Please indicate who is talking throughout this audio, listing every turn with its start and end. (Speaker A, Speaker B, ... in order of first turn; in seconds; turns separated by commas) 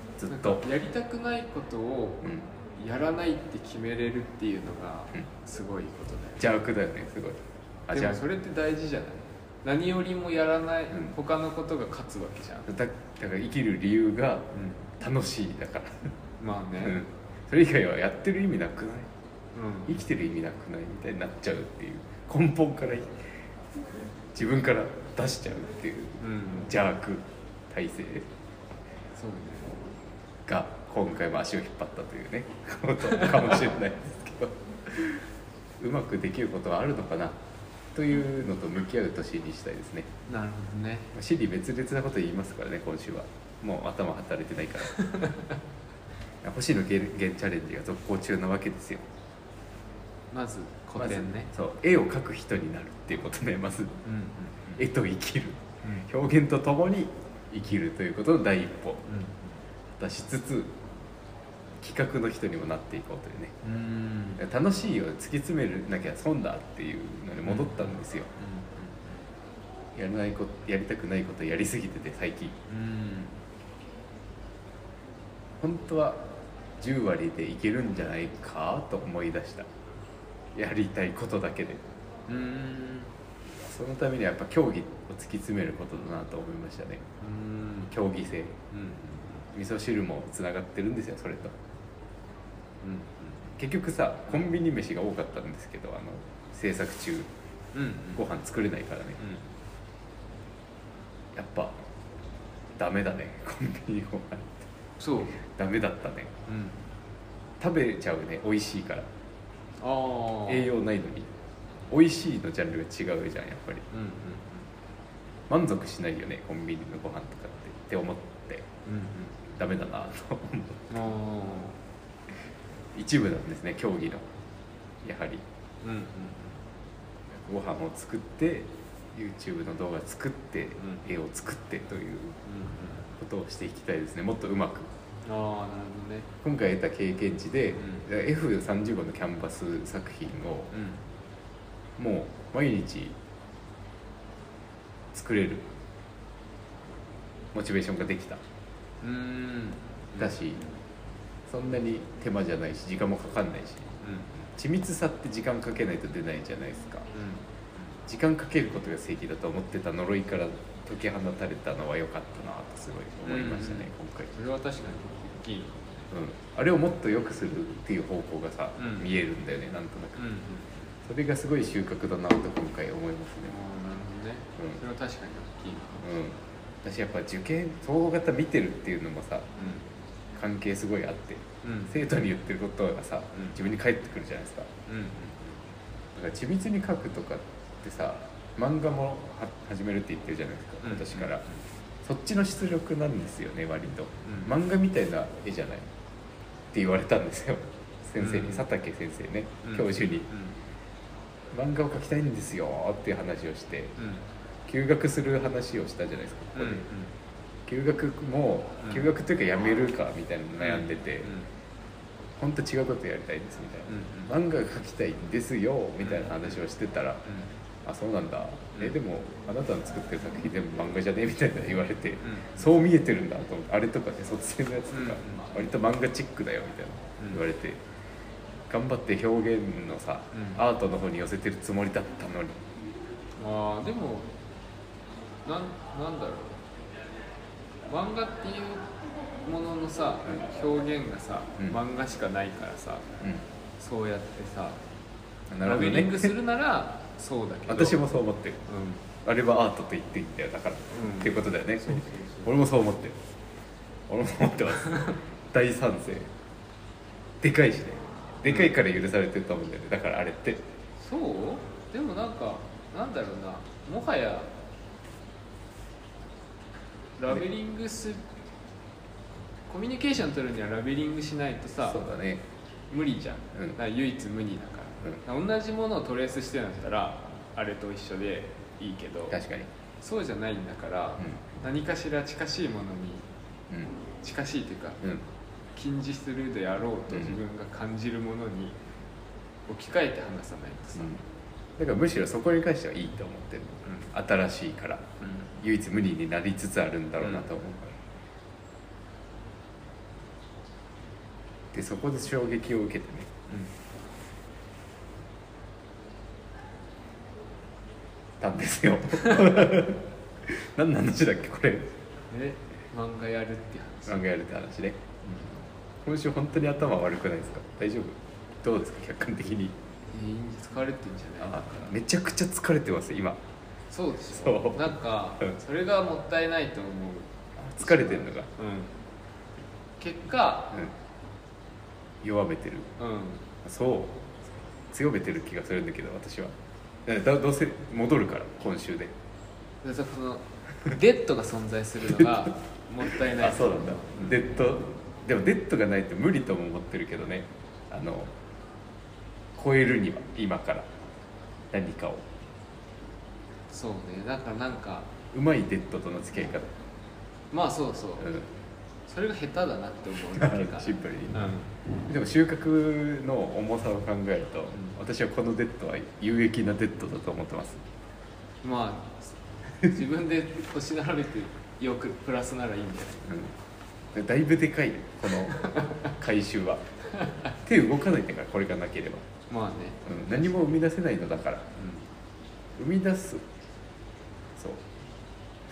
Speaker A: 0.2-0.6, Speaker B: 0.3-6.5, Speaker A: 6.4-8.2, Speaker B: 7.9-12.7, Speaker A: 12.7-16.1, Speaker B: 14.5-14.8, Speaker B: 16.4-17.0, Speaker A: 16.8-19.1, Speaker B: 19.5-20.0, Speaker A: 19.9-23.2, Speaker A: 24.3-28.3, Speaker B: 26.2-26.7, Speaker B: 29.1-29.8, Speaker A: 30.5-35.2, Speaker A: 35.8-37.4, Speaker A: 38.0-40.1, Speaker B: 40.3-41.1, Speaker A: 41.1-45.0, Speaker B: 45.0-45.5, Speaker A: 46.4-49.0, Speaker B: 50.3-51.5, Speaker A: 51.0-54.0, Speaker B: 54.0-54.8, Speaker A: 54.8-59.1, Speaker B: 59.1-59.6, Speaker A: 60.0-60.7, Speaker A: 61.8-63.6, Speaker B: 63.6-64.4, Speaker A: 64.4-68.3, Speaker B: 67.5-69.2, Speaker A: 70.0-72.6, Speaker B: 72.7-73.4, Speaker A: 75.6-76.3, Speaker A: 76.8-79.7, Speaker A: 80.5-81.8, Speaker B: 82.3-83.1, Speaker A: 83.6-87.1, Speaker B: 87.2-87.9, Speaker A: 87.9-88.6, Speaker B: 88.7-89.4, Speaker A: 89.5-91.5, Speaker B: 92.8-93.4, Speaker A: 93.6-97.3, Speaker B: 97.7-98.2, Speaker A: 98.2-99.3, Speaker B: 99.2-99.4, Speaker A: 101.3-101.8, Speaker A: 102.8-104.7, Speaker B: 105.0-105.4, Speaker A: 105.4-106.3, Speaker B: 106.5-106.8, Speaker A: 107.6-109.1, Speaker B: 109.8-110.7, Speaker A: 110.5-111.3, Speaker A: 111.9-113.9, Speaker B: 113.9-114.7, Speaker A: 115.5-118.7, Speaker B: 118.8-119.4, Speaker A: 119.5-120.9, Speaker B: 120.9-121.8, Speaker A: 123.0-124.3, Speaker A: 125.0-125.4, Speaker B: 125.8-126.6, Speaker A: 127.4-132.4, Speaker B: 132.4-133.1, Speaker A: 133.1-134.9, Speaker B: 135.2-136.3, Speaker A: 136.4-140.7, Speaker B: 137.8-138.1, Speaker B: 140.7-141.0, Speaker A: 142.0-143.1, Speaker A: 145.1-145.7, Speaker A: 147.5-148.4, Speaker B: 149.0-150.3, Speaker A: 150.2-150.6, Speaker A: 151.5-153.9, Speaker B: 154.0-154.3, Speaker A: 154.6-157.1, Speaker B: 157.1-157.4, Speaker A: 158.1-164.3, Speaker B: 163.2-166.1, Speaker A: 166.1-170.2, Speaker B: 168.8-169.1, Speaker B: 170.2-170.9, Speaker A: 171.1-173.6, Speaker B: 173.4-176.2, Speaker A: 176.0-179.5, Speaker B: 179.6-179.8, Speaker A: 180.3-184.7, Speaker B: 181.6-181.9, Speaker B: 184.9-185.6, Speaker A: 186.2-191.4, Speaker B: 190.8-191.6, Speaker A: 192.0-195.9, Speaker B: 194.2-194.5, Speaker A: 196.7-200.3, Speaker B: 198.2-198.7, Speaker B: 199.6-200.6, Speaker A: 201.5-203.9, Speaker B: 204.0-204.2, Speaker A: 204.7-206.9, Speaker B: 206.6-207.1, Speaker A: 207.7-211.3, Speaker B: 210.6-211.5, Speaker A: 212.4-217.3, Speaker B: 213.9-214.3, Speaker B: 216.0-216.6, Speaker B: 217.2-217.5, Speaker A: 217.8-227.8, Speaker B: 222.2-222.6, Speaker B: 224.9-225.5, Speaker A: 228.7-232.7, Speaker B: 230.3-230.6, Speaker B: 233.4-234.3, Speaker B: 235.4-236.6, Speaker B: 237.9-238.9, Speaker B: 239.4-243.1, Speaker B: 243.8-244.8, Speaker A: 245.5-246.3, Speaker B: 245.6-248.0, Speaker A: 247.7-248.6, Speaker B: 248.7-249.1, Speaker A: 249.2-253.2, Speaker B: 250.9-252.5, Speaker A: 254.1-256.3, Speaker A: 257.4-260.6, Speaker B: 258.4-258.7, Speaker B: 261.0-264.5, Speaker B: 267.2-268.2, Speaker B: 269.7-272.1, Speaker A: 271.9-272.4, Speaker B: 272.9-279.4, Speaker A: 279.3-279.7, Speaker B: 280.0-283.3, Speaker B: 284.2-285.0, Speaker B: 285.7-288.8, Speaker A: 287.1-287.4, Speaker B: 289.7-291.2, Speaker A: 291.8-297.9, Speaker A: 301.7-303.3, Speaker A: 308.4-311.9, Speaker B: 312.3-314.2, Speaker A: 314.1-315.1, Speaker B: 315.3-315.5, Speaker A: 316.1-319.7, Speaker B: 320.1-321.9, Speaker A: 321.4-323.4, Speaker B: 323.9-328.9, Speaker A: 324.3-325.5, Speaker A: 327.6-328.5, Speaker B: 330.0-330.8, Speaker A: 332.2-332.9, Speaker B: 333.0-333.5, Speaker A: 333.6-334.3, Speaker A: 334.9-336.6, Speaker A: 337.1-339.1, Speaker B: 339.8-344.4, Speaker A: 343.2-348.3, Speaker A: 349.6-350.9, Speaker A: 351.7-352.2, Speaker B: 353.7-355.1, Speaker A: 355.3-356.7, Speaker B: 357.5-358.3, Speaker A: 358.2-358.5, Speaker B: 359.1-361.7, Speaker A: 360.2-361.5, Speaker A: 362.0-367.8, Speaker B: 368.6-373.3, Speaker A: 373.3-373.5, Speaker A: 374.1-376.9, Speaker B: 375.5-375.8, Speaker A: 377.6-379.3, Speaker B: 379.5-380.2, Speaker A: 380.1-381.7, Speaker B: 381.8-382.1, Speaker A: 382.8-383.4, Speaker A: 384.6-384.8